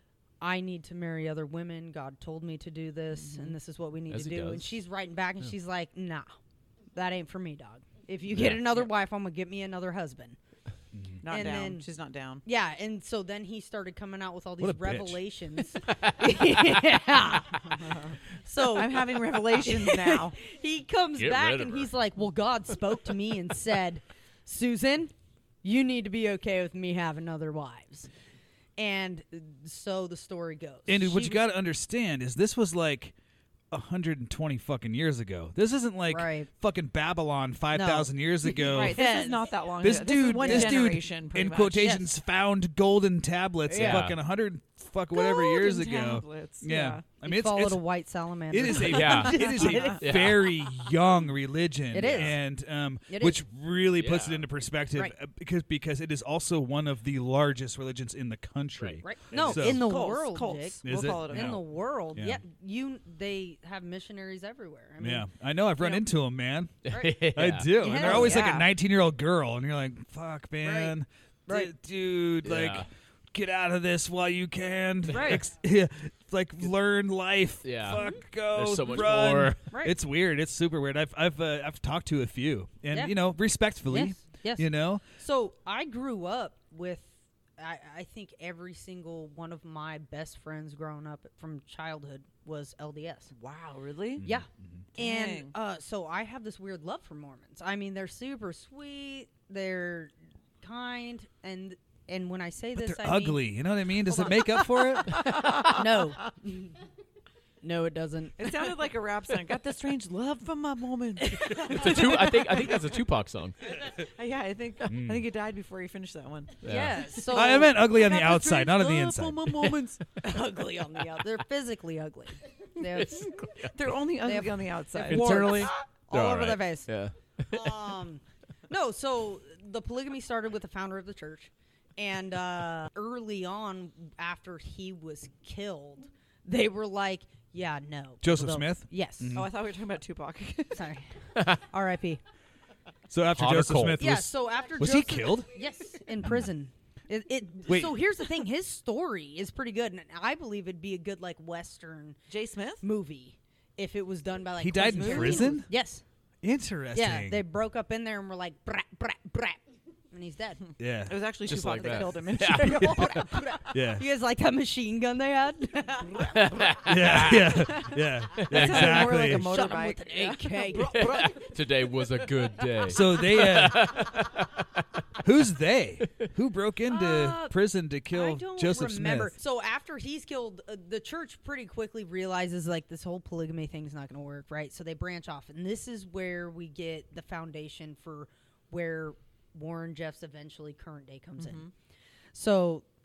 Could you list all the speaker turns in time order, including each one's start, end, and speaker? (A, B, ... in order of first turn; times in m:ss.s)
0:00.4-0:06.3 A
0:03.2-0:03.6 B
0:04.1-0:04.8 C
0:07.0-0:10.4 A
0:08.3-0:08.8 C
0:10.9-0:11.2 D
0:11.2-0:12.4 B
0:11.3-0:11.9 A
0:12.4-0:28.1 A
0:14.6-0:15.2 D
0:15.8-0:16.8 C
0:17.9-0:18.2 B
0:18.7-0:20.4 B
0:21.2-0:21.9 C
0:28.8-0:31.4 A
0:30.9-0:33.1 D
0:33.7-0:39.1 D
0:36.1-0:36.5 A
0:37.7-0:39.5 A
0:38.7-0:42.1 B
0:39.8-0:47.9 D
0:40.3-0:40.9 A
0:43.7-0:44.0 B
0:43.7-0:44.2 C
0:45.1-0:47.0 B
0:47.2-0:50.4 A
0:48.5-0:59.9 D
0:48.8-0:50.4 C
0:49.0-0:50.0 B
0:51.9-0:52.4 A
0:52.0-0:52.3 C
0:53.1-0:53.4 A
0:53.9-0:54.5 C
0:58.8-0:59.6 C
0:59.0-1:06.0 A
0:59.4-1:01.6 B
1:00.8-1:01.6 D
1:02.1-1:02.4 D
1:05.0-1:25.0 D
1:06.9-1:08.2 C
1:06.9-1:08.6 A
1:08.0-1:08.7 B
1:10.6-1:11.0 A
1:11.5-1:11.7 A
1:12.4-1:12.9 C
1:15.1-1:15.4 A
1:17.6-1:19.6 C
1:19.7-1:20.0 A
1:22.9-1:33.3 A
1:33.4-1:34.2 B
1:34.2-1:34.8 D
1:34.2-1:43.5 A
1:35.0-1:35.6 B
1:42.8-1:45.4 D
1:44.1-1:46.8 A
1:45.1-1:45.8 B
1:47.6-1:48.7 A
1:48.4-1:52.9 B
1:51.2-1:52.1 A
1:51.6-1:53.7 C
1:54.0-1:56.6 B
1:54.8-1:55.3 D
1:56.6-1:57.0 C
1:56.6-1:57.8 A
1:57.3-1:59.8 D
1:57.4-2:00.0 B
2:00.2-2:03.3 A
2:03.0-2:03.9 C
2:03.0-2:05.8 B
2:04.2-2:06.9 A
2:05.1-2:07.9 C
2:07.5-2:19.4 A
2:18.2-2:19.5 D
2:19.3-2:20.9 B
2:20.7-2:22.2 A
2:23.1-2:25.5 D
2:23.3-2:24.1 C
2:24.0-2:32.2 A
2:27.7-2:28.0 D
2:32.3-2:32.8 B
2:32.8-2:36.0 A
2:34.6-2:35.7 D
2:35.0-2:35.6 B
2:36.4-2:37.4 D
2:36.9-2:39.6 A
2:40.1-2:40.6 A
2:40.8-2:41.2 D
2:41.1-2:43.4 B
2:41.4-2:43.3 C
2:42.6-2:46.4 A
2:43.7-2:44.0 D
2:46.2-2:47.7 C
2:46.8-2:49.5 D
2:48.4-2:48.9 C
2:48.5-2:51.5 B
2:49.1-2:51.0 A
2:50.9-2:54.8 C
2:52.8-2:54.1 D
2:55.2-2:59.4 D
2:56.9-2:57.6 A
2:58.1-3:11.7 A
3:11.4-3:11.7 B
3:12.3-3:12.8 A